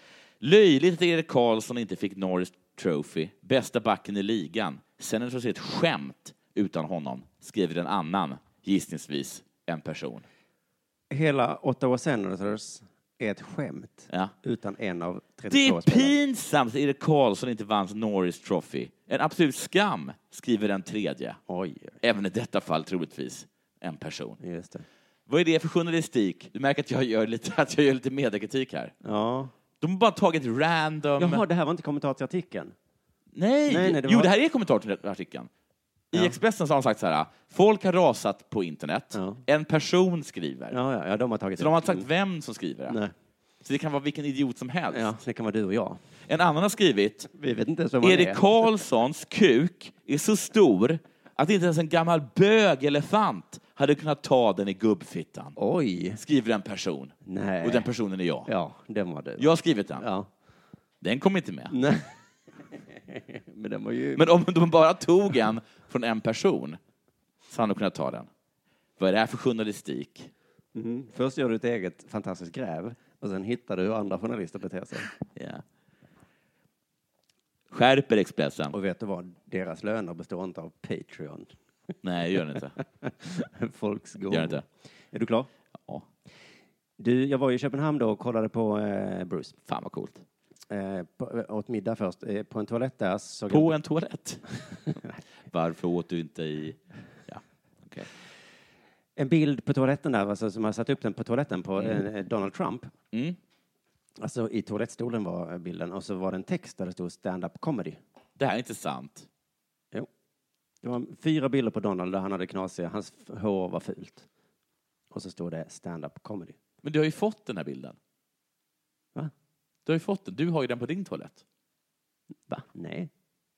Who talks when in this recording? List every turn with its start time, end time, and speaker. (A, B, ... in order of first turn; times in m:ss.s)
0:00.4-0:10.3 A
0:11.1-0:16.2 B
0:15.5-0:21.4 A
0:21.5-0:22.0 B
0:22.0-0:24.4 A
0:24.4-0:24.8 B
0:25.3-0:28.9 A
0:29.0-0:29.5 B
0:29.8-0:31.4 A
0:31.2-0:32.7 B
0:33.3-0:35.5 A
0:33.7-0:34.3 B
0:36.1-0:40.8 A
0:39.1-0:39.4 B
0:40.7-0:42.1 B
0:41.6-0:43.0 A
0:42.9-0:43.1 B
0:43.6-0:45.1 A
0:44.9-0:46.0 B
0:46.3-0:47.3 A
0:47.3-0:48.5 B
0:48.0-0:55.6 A
0:55.6-0:56.2 B
0:56.2-0:58.5 A
0:57.3-0:57.9 B
0:58.5-1:00.3 B
0:59.4-1:00.0 A
1:01.0-1:01.8 A
1:01.7-1:02.1 B
1:02.9-1:04.2 B
1:04.2-1:06.8 A
1:07.5-1:08.3 A
1:09.0-1:10.3 A
1:10.8-1:15.1 B
1:15.3-1:15.6 A
1:17.7-1:18.8 A
1:18.7-1:21.5 B
1:22.0-1:22.8 A
1:22.8-1:25.5 B
1:24.3-1:24.6 A
1:27.0-1:29.6 B
1:29.7-1:30.2 A
1:30.7-1:33.8 B
1:33.5-1:38.1 A
1:39.2-1:42.9 B
1:43.1-1:43.4 A
1:44.2-1:48.0 B
1:48.4-1:49.3 A
1:50.8-1:54.3 B
1:55.1-1:56.6 B
1:56.8-1:58.0 A
1:59.9-2:01.4 A
2:02.5-2:03.1 B